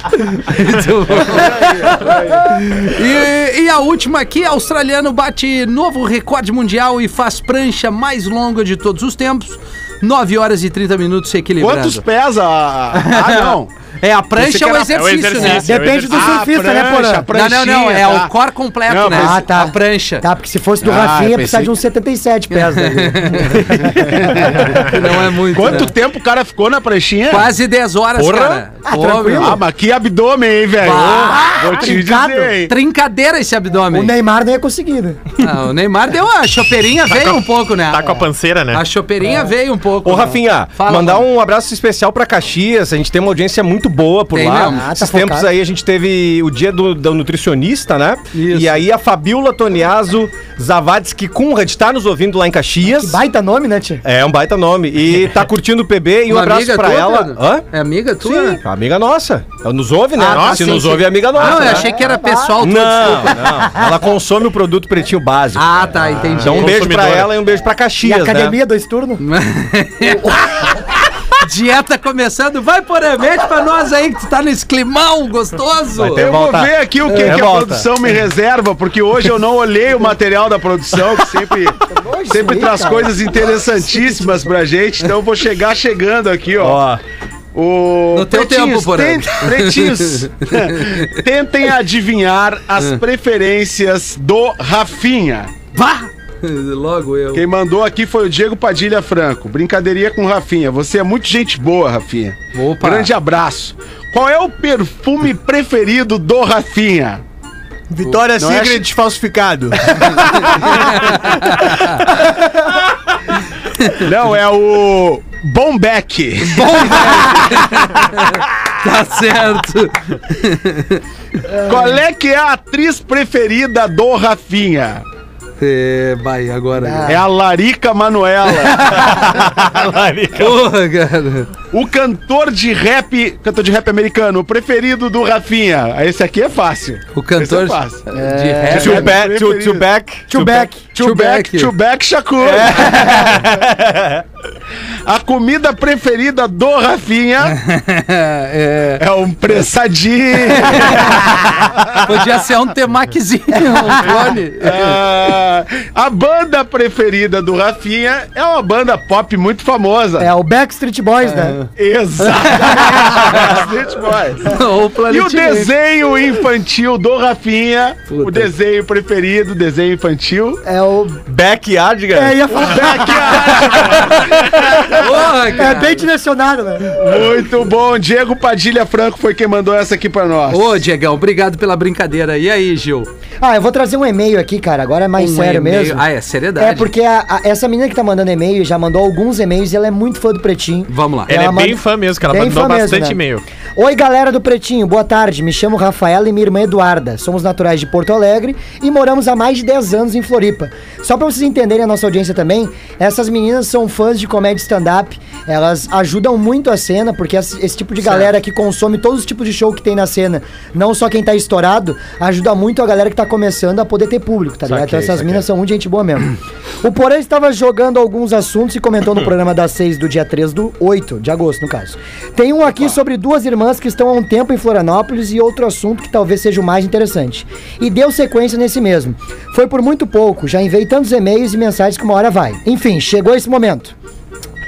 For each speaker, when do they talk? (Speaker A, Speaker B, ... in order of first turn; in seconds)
Speaker A: 0.1-12.0, 12.9-15.7, 17.3-20.2, 22.5-23.9, 24.6-25.9, 27.3-29.6, 30.8-31.9, 32.6-34.1, 35.4-38.2, 38.7-41.2, 44.3-44.8, 48.3-48.8, 56.3-58.6, 60.3-63.5, 65.5-66.8, 69.2-70.8, 71.4-76.3, 77.0-77.4, 88.1-91.1, 95.7-97.5, 102.5-103.1, 110.4-112.0, 113.8-114.0, 116.4-121.0, 125.6-127.2, 128.7-129.2, 130.4-131.5, 137.1-139.1, 140.9-141.7, 147.5-149.0, 150.5-155.0, 161.2-161.7, 162.2-163.4, 164.4-165.7, 168.1-168.5, 174.9-176.1, 180.5-183.1, 185.2-186.9, 190.9-191.4, 208.0-208.3
Speaker B: 1.1-2.5, 11.6-13.7, 14.3-15.6, 16.1-18.3, 18.9-19.4, 20.8-21.7, 23.9-27.5, 29.4-32.7, 76.1-86.8, 87.5-95.5, 97.3-107.2, 108.3-108.9, 114.0-117.5, 121.6-125.0, 127.0-129.1, 131.7-138.0, 138.7-139.8, 140.9-142.9, 145.1-147.6, 149.0-151.9, 154.6-160.3, 161.7-164.5, 165.1-170.6, 172.5-175.4, 176.9-180.8
Speaker C: 14.9-16.4, 37.1-38.8, 60.2-61.8, 66.3-67.3, 191.3-193.4
Speaker D: 15.6-17.3, 19.1-24.8, 28.8-29.6, 31.4-32.5, 33.9-35.3, 44.7-45.5, 52.9-54.0, 61.5-63.9, 68.0-69.2, 70.0-70.5, 81.8-83.2, 121.5-122.0, 126.8-127.2, 138.1-139.2, 140.3-140.8, 142.9-143.2, 153.7-154.2, 160.2-161.6, 170.6-171.2, 172.1-173.9, 174.8-177.0, 183.4-186.0, 186.6-193.2, 193.8-233.9
Speaker E: 28.1-28.6, 40.0-53.2, 54.0-57.6, 58.2-62.0, 62.6-68.6, 76.0-77.9, 86.6-87.0, 107.9-110.6, 128.9-130.6, 138.7-140.7, 142.4-144.2, 171.2-172.8, 214.7-215.4